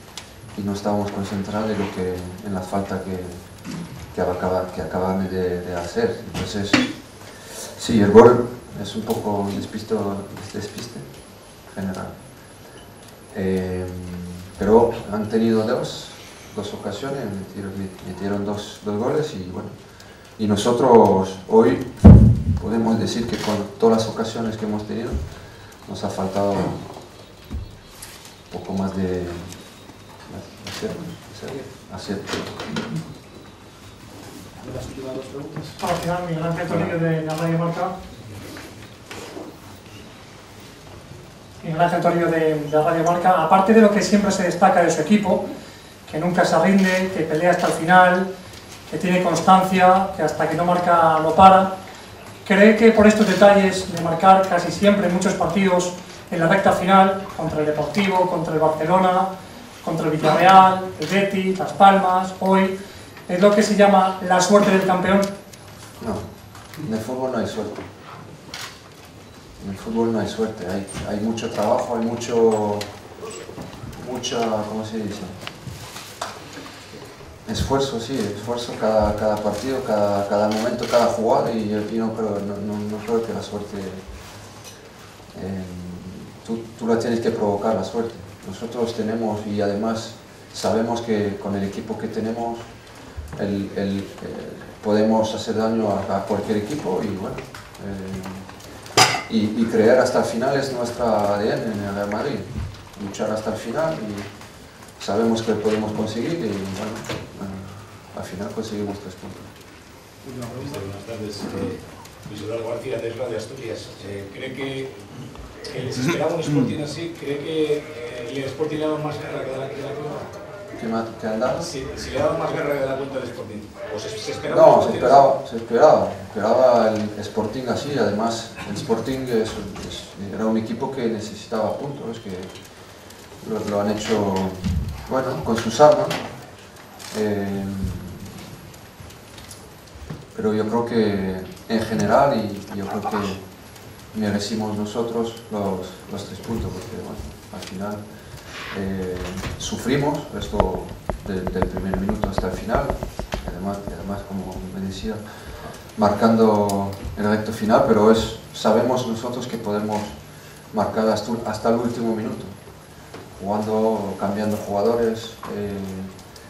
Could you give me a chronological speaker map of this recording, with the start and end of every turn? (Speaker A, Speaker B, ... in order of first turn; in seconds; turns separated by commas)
Speaker A: 0.5-12.2, Speaker A: 13.3-19.7, Speaker A: 20.4-27.0, Speaker A: 28.5-32.8, Speaker B: 35.8-37.9, Speaker B: 41.6-45.4, Speaker B: 46.1-48.3, Speaker B: 48.9-51.7, Speaker B: 52.4-59.3, Speaker B: 59.8-62.7, Speaker B: 63.3-65.3, Speaker A: 66.8-67.8, Speaker A: 69.6-72.9, Speaker A: 73.9-75.5, Speaker A: 77.5-84.2, Speaker A: 85.3-92.7, Speaker A: 93.3-98.5, Speaker A: 99.3-104.3, Speaker A: 105.0-109.5, Speaker C: 110.2-115.0, Speaker C: 115.7-120.3, Speaker A: 120.7-121.7, Speaker C: 121.5-125.3, Speaker A: 124.5-132.5, Speaker A: 133.4-136.2, Speaker A: 137.1-138.4, Speaker A: 140.3-143.4, Speaker A: 144.1-148.0, Speaker A: 148.7-155.2, Speaker A: 155.9-160.2, Speaker A: 160.7-162.6, Speaker A: 163.3-166.1